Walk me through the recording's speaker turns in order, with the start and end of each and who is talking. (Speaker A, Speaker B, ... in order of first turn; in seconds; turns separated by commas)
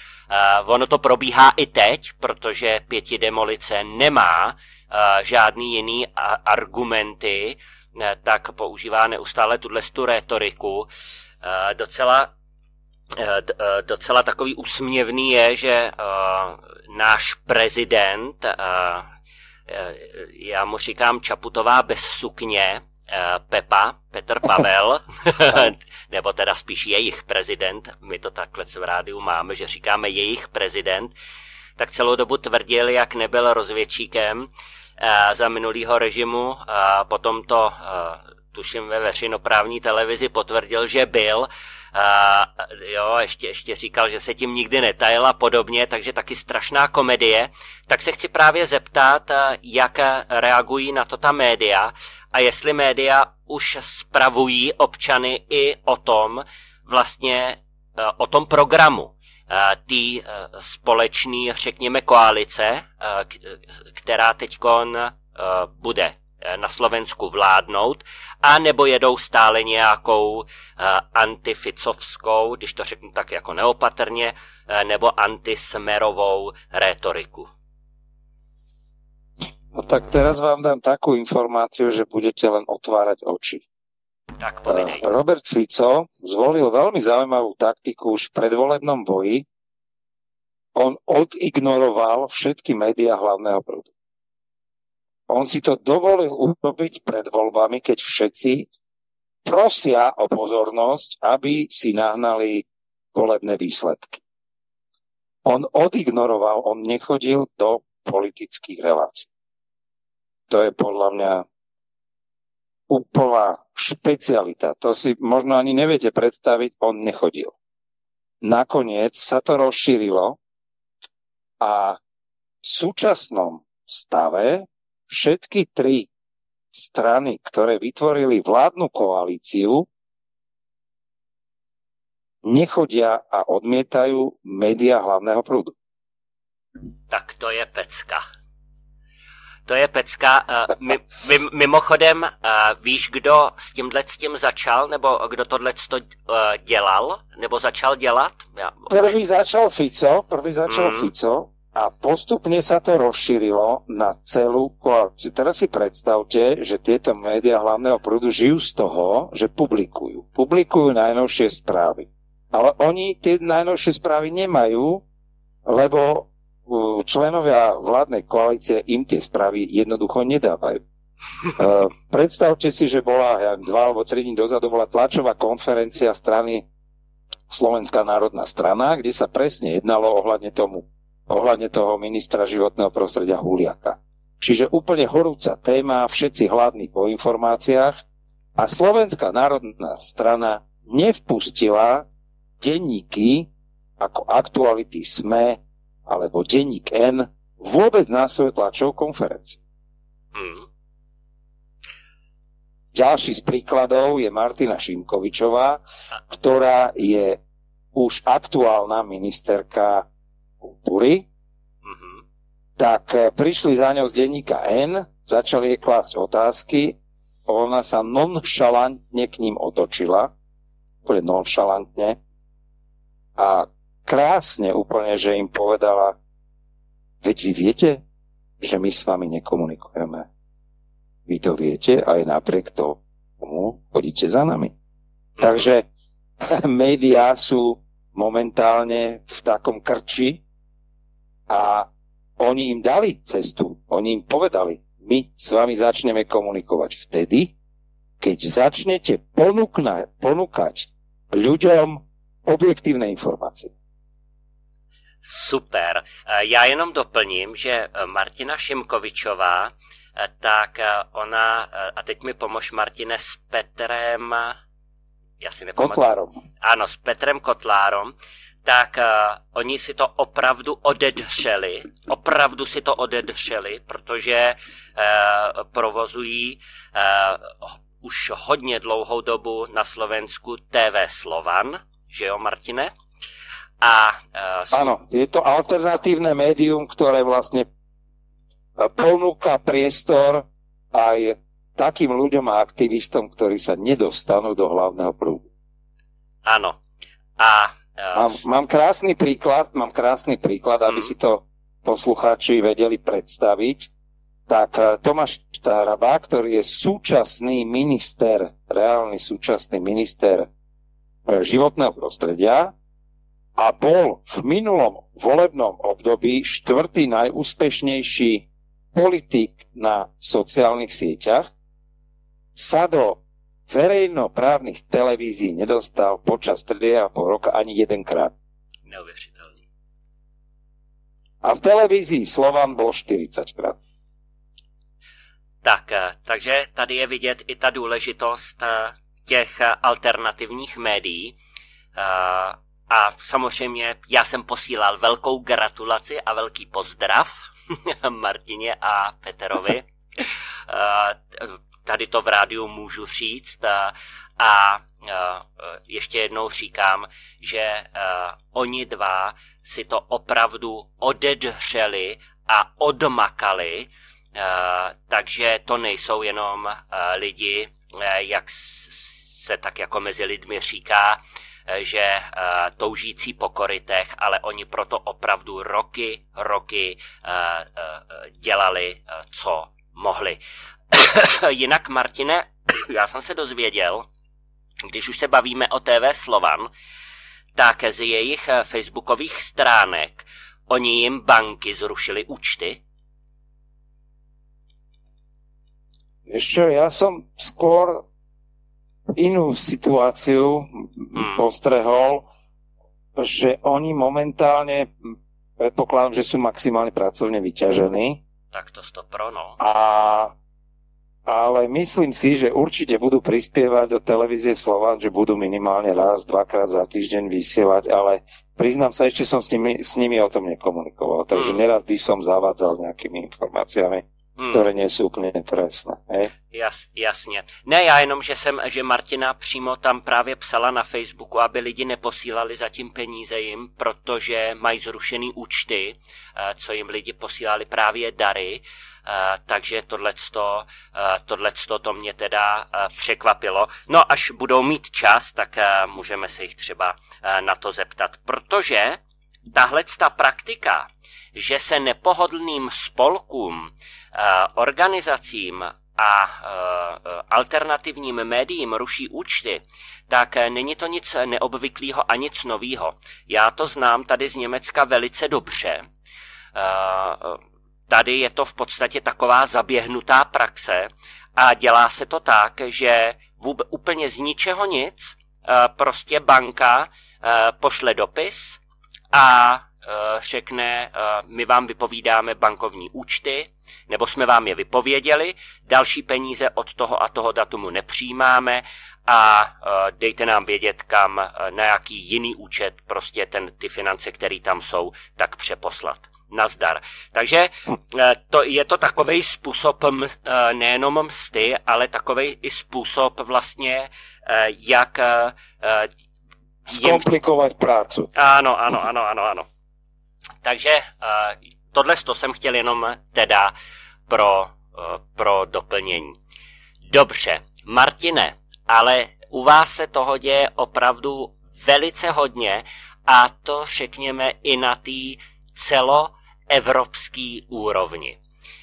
Speaker A: 0.3-10.9, Speaker A: 11.4-12.3, Speaker A: 13.1-19.1, Speaker A: 19.7-31.1, Speaker A: 31.8-77.5, Speaker B: 79.7-83.7, Speaker A: 84.4-85.0, Speaker B: 84.7-89.5, Speaker B: 90.8-93.9, Speaker B: 95.3-98.7, Speaker B: 99.5-104.2, Speaker B: 105.5-109.3, Speaker B: 110.5-111.5, Speaker B: 112.9-117.5, Speaker B: 118.4-120.4, Speaker B: 121.6-122.0, Speaker B: 122.6-126.1, Speaker B: 126.7-129.9, Speaker B: 132.4-135.8, Speaker A: 137.1-138.2, Speaker A: 139.7-149.1, Speaker B: 148.9-165.0, Speaker A: 150.7-151.1, Speaker B: 165.7-170.8, Speaker B: 171.6-176.7, Speaker B: 177.5-188.0, Speaker B: 188.6-192.1, Speaker B: 192.6-199.6, Speaker A: 200.3-200.7, Speaker B: 202.9-207.4, Speaker B: 207.9-210.1, Speaker B: 210.6-211.3, Speaker A: 211.8-212.2, Speaker B: 212.8-220.3, Speaker B: 221.1-222.2, Speaker B: 223.4-226.2, Speaker B: 227.2-228.0, Speaker B: 228.6-230.3, Speaker B: 231.3-234.7, Speaker A: 235.4-235.7, Speaker B: 235.4-235.9, Speaker B: 236.4-240.4, Speaker B: 241.5-247.5, Speaker B: 248.2-253.7, Speaker A: 255.2-264.6, Speaker A: 265.4-266.1, Speaker B: 265.8-266.4, Speaker A: 266.6-282.9, Speaker A: 283.8-285.0, Speaker B: 284.7-287.7, Speaker B: 288.8-295.5, Speaker A: 296.4-296.8, Speaker A: 297.4-298.4, Speaker B: 298.1-303.9, Speaker B: 304.5-310.5, Speaker B: 311.3-312.7, Speaker B: 313.6-321.5, Speaker B: 322.6-328.3, Speaker A: 328.9-329.6, Speaker B: 331.4-333.8, Speaker A: 335.6-341.4, Speaker A: 341.9-380.4, Speaker A: 380.9-384.1, Speaker A: 384.9-386.7, Speaker A: 387.6-392.8, Speaker B: 396.3-398.1, Speaker B: 399.1-402.3, Speaker A: 401.1-401.5, Speaker B: 403.2-404.9, Speaker B: 405.6-408.2, Speaker A: 408.5-409.6, Speaker B: 409.6-410.3, Speaker B: 411.3-426.3, Speaker A: 421.3-421.6, Speaker A: 424.4-424.7, Speaker A: 426.5-449.0, Speaker A: 449.5-465.9, Speaker A: 466.6-478.6, Speaker A: 479.1-505.9, Speaker B: 506.7-508.1, Speaker A: 506.7-507.1, Speaker A: 508.1-509.5, Speaker A: 510.4-513.5, Speaker A: 514.1-516.2, Speaker A: 516.9-528.2